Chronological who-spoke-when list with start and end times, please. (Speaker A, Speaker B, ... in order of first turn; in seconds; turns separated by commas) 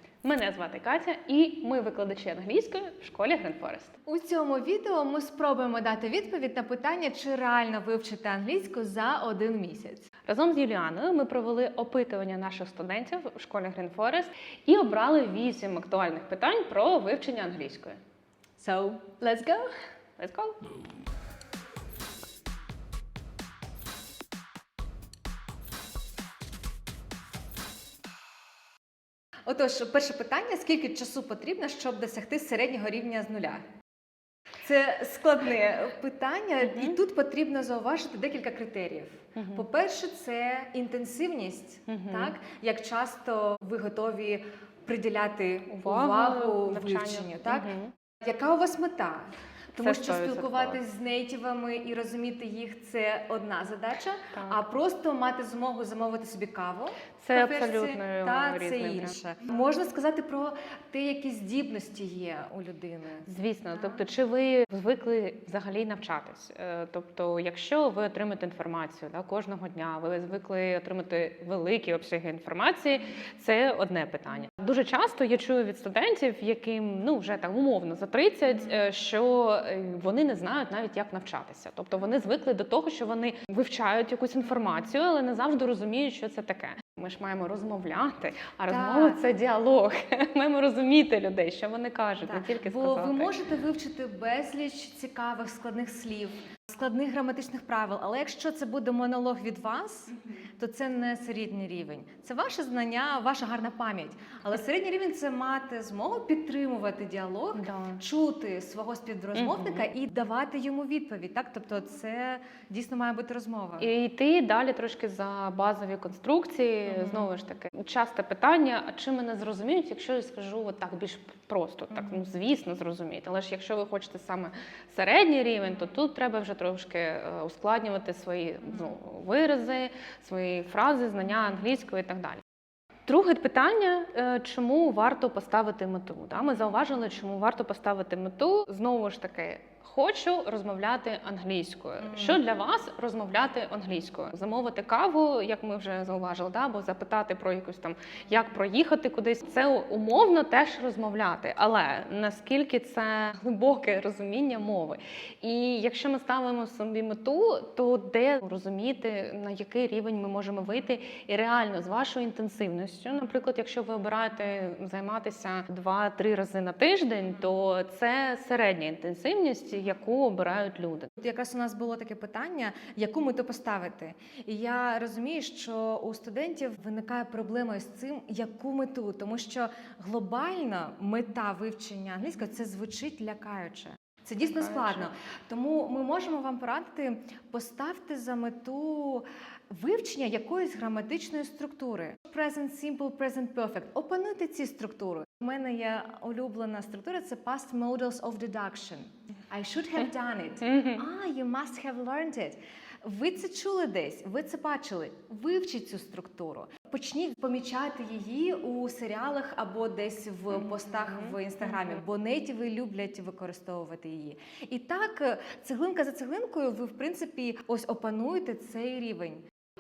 Speaker A: 0.2-3.9, Speaker B: 4.1-10.1, Speaker A: 10.3-18.0, Speaker B: 18.6-19.7, Speaker A: 20.2-20.6, Speaker B: 29.5-33.6, Speaker B: 34.6-47.7, Speaker A: 36.6-37.0, Speaker A: 39.4-39.6, Speaker A: 41.9-42.3, Speaker A: 45.7-47.9, Speaker B: 48.2-63.3, Speaker A: 49.7-50.8, Speaker A: 54.3-54.6, Speaker A: 57.2-59.1, Speaker A: 63.3-93.3, Speaker B: 88.7-89.2, Speaker B: 92.2-113.9, Speaker A: 107.5-108.0, Speaker A: 109.3-109.9, Speaker A: 113.8-132.4, Speaker B: 116.9-117.3, Speaker A: 133.1-171.1, Speaker B: 142.0-142.4, Speaker B: 171.2-219.4, Speaker A: 184.4-185.1, Speaker A: 200.6-201.0, Speaker A: 210.5-212.0